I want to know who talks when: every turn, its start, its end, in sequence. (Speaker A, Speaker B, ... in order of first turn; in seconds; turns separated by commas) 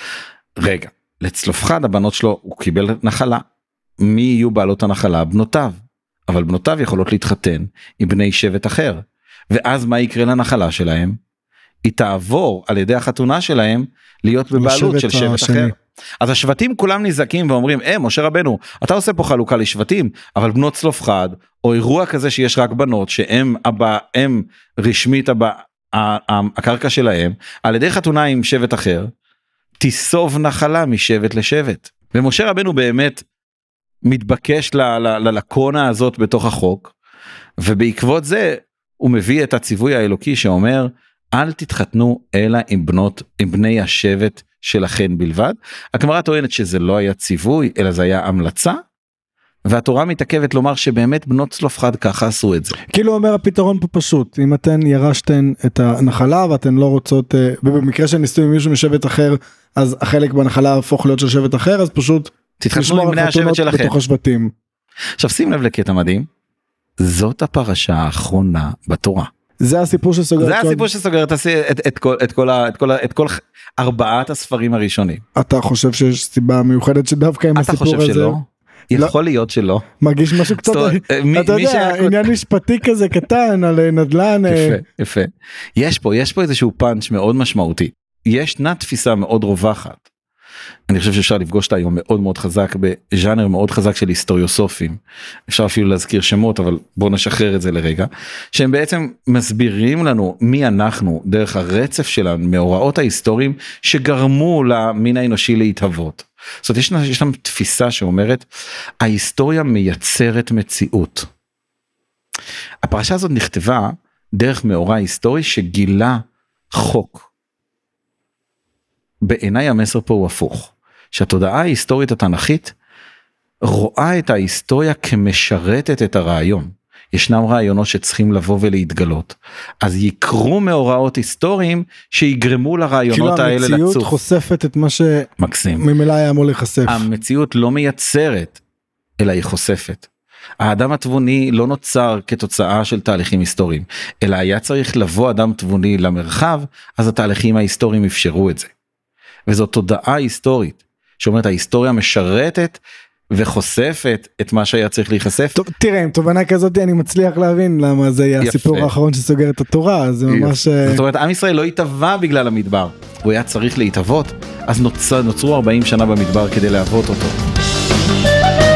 Speaker A: 0.6-3.4, Speaker A: 4.0-5.8, Speaker A: 6.3-11.2, Speaker A: 11.8-29.1, Speaker B: 14.5-15.7, Speaker A: 29.8-33.2, Speaker A: 34.0-36.9, Speaker A: 37.6-48.8, Speaker A: 49.6-52.8, Speaker B: 52.9-64.5, Speaker A: 62.6-64.0, Speaker A: 65.2-66.3, Speaker A: 67.0-69.3, Speaker B: 69.6-70.9, Speaker A: 70.4-75.2, Speaker B: 75.3-78.4, Speaker A: 77.5-79.8, Speaker B: 80.0-84.8, Speaker A: 80.4-82.3, Speaker A: 84.5-90.0, Speaker A: 90.9-108.5, Speaker A: 109.0-111.3, Speaker A: 112.8-116.2, Speaker A: 116.7-117.3, Speaker A: 119.2-122.7, Speaker A: 123.6-134.2, Speaker B: 133.1-137.1, Speaker A: 135.4-135.8, Speaker A: 136.8-138.6, Speaker A: 139.2-140.1, Speaker A: 140.6-148.7, Speaker A: 149.5-152.8, Speaker A: 153.3-155.6, Speaker B: 155.5-161.0, Speaker A: 158.4-158.9, Speaker A: 160.3-167.4